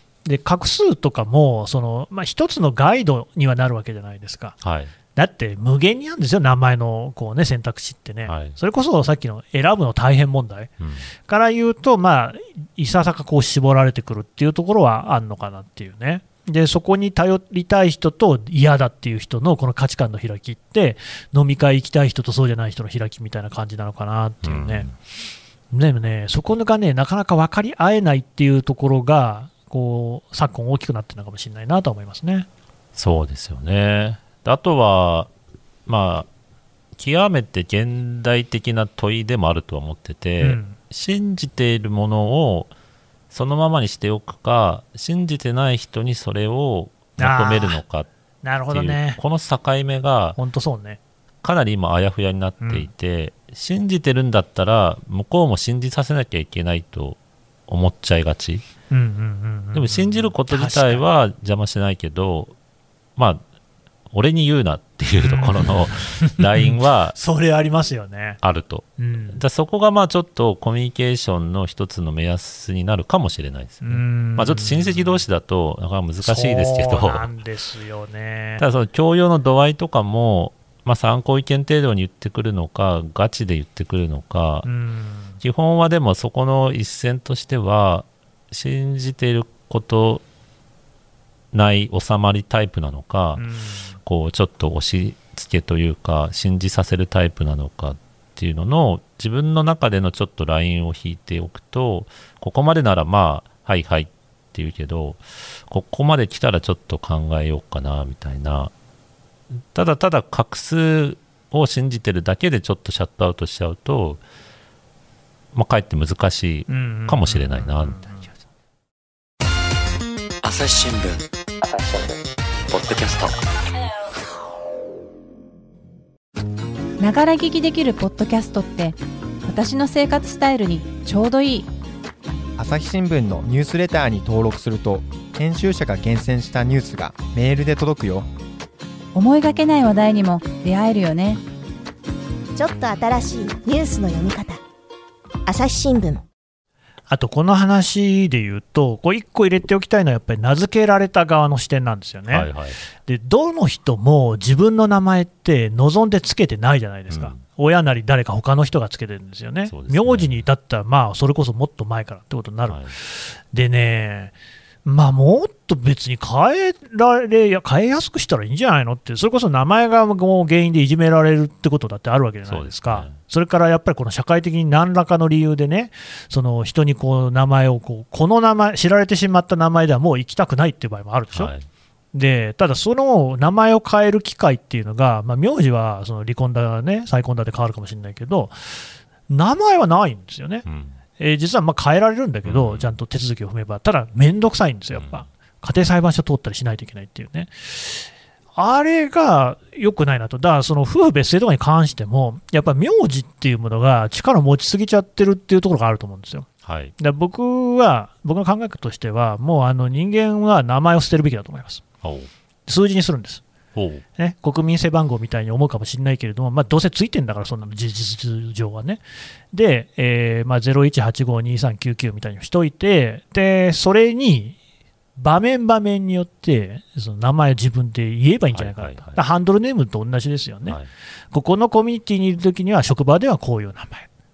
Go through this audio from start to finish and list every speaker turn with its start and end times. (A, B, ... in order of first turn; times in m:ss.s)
0:00.2-0:04.6 A
0:04.6-0:04.9 B
0:05.2-0:10.7 A
0:08.3-0:08.6 B
0:10.8-0:11.1 B
0:11.3-0:24.9 A
0:24.4-0:25.0 B
0:25.7-0:32.5 A
0:33.0-0:35.3 B
0:35.9-0:36.3 B
0:37.0-0:42.7 B
0:40.4-0:40.8 A
0:43.3-0:48.1 B
0:47.2-0:47.8 A
0:48.4-0:49.2 A
0:48.7-0:50.4 B
0:50.4-0:51.0 A
0:51.4-0:58.6 B
0:52.6-0:52.9 A
0:58.9-1:01.0 A
0:59.7-1:02.6 B
1:03.2-1:03.4 B
1:04.1-1:07.2 B
1:05.2-1:08.4 A
1:08.4-1:17.3 B
1:09.0-1:09.4 A
1:13.8-1:15.2 A
1:16.2-1:18.6 A
1:18.6-1:24.7 B
1:24.6-1:25.4 A
1:25.4-1:30.2 B
1:31.5-1:33.4 B
1:33.4-1:34.0 A
1:34.0-1:48.7 B
1:49.7-1:54.2 B
1:55.5-1:58.3 B
1:56.7-1:58.3 A
2:00.4-2:03.4 C
2:07.0-2:11.7 D
2:12.6-2:18.3 E
2:19.1-2:21.4 D
2:22.6-2:24.6 F
2:25.5-2:26.2 F
2:27.1-2:32.5 A
2:32.3-2:32.8 B
2:33.1-2:44.3 A
2:37.1-2:37.4 B
2:39.7-2:40.5 B
2:42.7-2:43.0 B
2:44.8-3:01.5 A
2:52.5-2:53.2 B
3:01.3-3:01.7 B
3:02.1-3:10.6 A
3:10.6-3:11.0 B
3:11.2-3:26.5 A
3:12.4-3:12.9 B
3:14.9-3:15.3 B
3:26.6-3:26.9 B
3:27.0-3:31.8 A
3:32.0-3:32.3 B
3:32.7-3:33.4 A
3:33.8-3:34.0 B
3:34.2-3:44.6 A
3:45.2-3:50.8 A
3:48.5-3:49.2 B
3:51.3-3:54.1 A